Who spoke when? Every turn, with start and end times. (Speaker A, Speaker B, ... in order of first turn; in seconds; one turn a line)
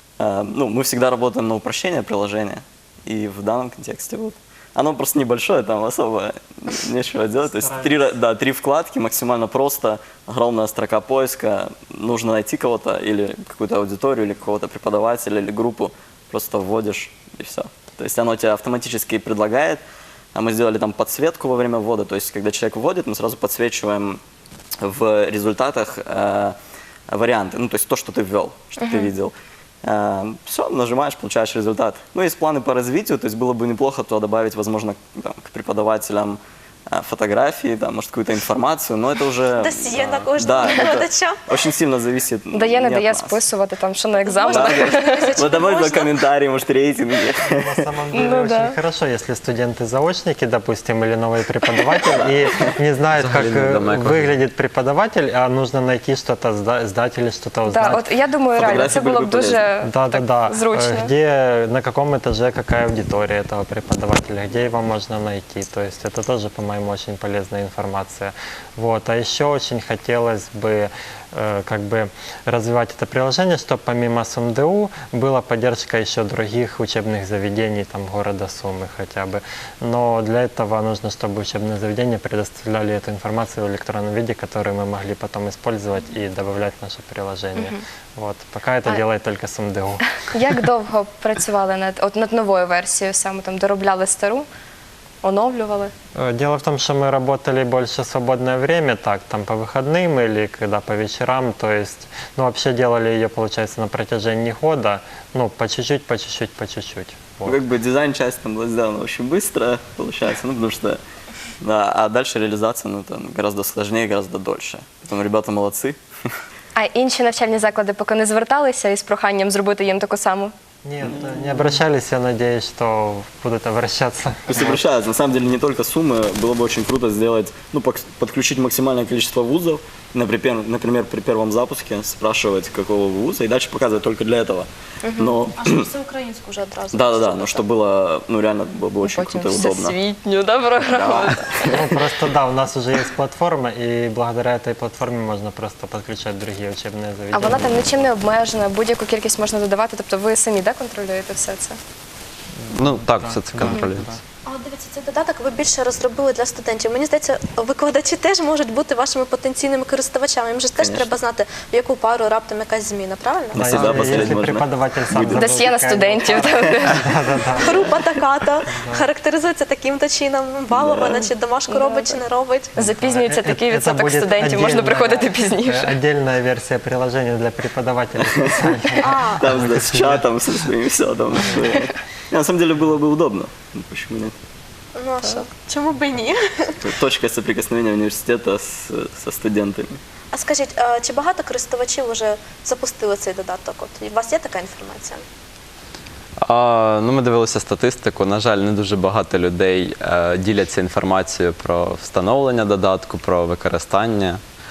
Speaker A: 0.2-19.8
Speaker B: 7.5-8.1
Speaker A: 20.3-24.2
Speaker A: 24.8-26.6
Speaker A: 27.1-36.4
Speaker C: 28.8-29.1
Speaker A: 36.9-43.4
Speaker D: 39.5-41.6
Speaker C: 42.5-45.4
Speaker D: 44.2-46.3
Speaker A: 44.5-47.9
Speaker B: 47.5-58.1
Speaker C: 48.1-48.7
Speaker A: 52.1-52.6
Speaker E: 53.1-54.3
Speaker C: 57.7-61.1
Speaker A: 58.5-59.6
Speaker B: 59.8-90.0
Speaker C: 87.5-87.8
Speaker C: 90.2-94.5
Speaker C: 95.2-95.9
Speaker B: 96.1-107.6
Speaker A: 107.5-111.0
Speaker A: 111.6-116.0
Speaker C: 116.8-120.5
Speaker B: 120.8-124.8
Speaker A: 124.5-135.9
Speaker C: 135.0-135.4
Speaker D: 135.5-137.7
Speaker A: 136.9-139.9
Speaker C: 139.0-141.9
Speaker A: 140.8-141.8
Speaker B: 141.6-148.1
Speaker C: 147.3-151.8
Speaker B: 152.6-154.2
Speaker E: 152.7-154.1
Speaker D: 154.4-163.7
Speaker A: 160.8-161.1
Speaker A: 163.5-165.5
Speaker B: 163.5-167.9
Speaker C: 165.3-167.1
Speaker A: 166.4-166.7
Speaker D: 167.6-172.7
Speaker B: 168.7-169.1
Speaker A: 170.7-171.2
Speaker C: 171.7-172.2
Speaker C: 172.7-175.9
Speaker B: 172.8-180.2
Speaker D: 179.0-179.4
Speaker A: 179.3-184.3
Speaker D: 184.9-186.9
Speaker A: 186.8-190.0
Speaker D: 190.3-195.2
Speaker E: 196.4-204.4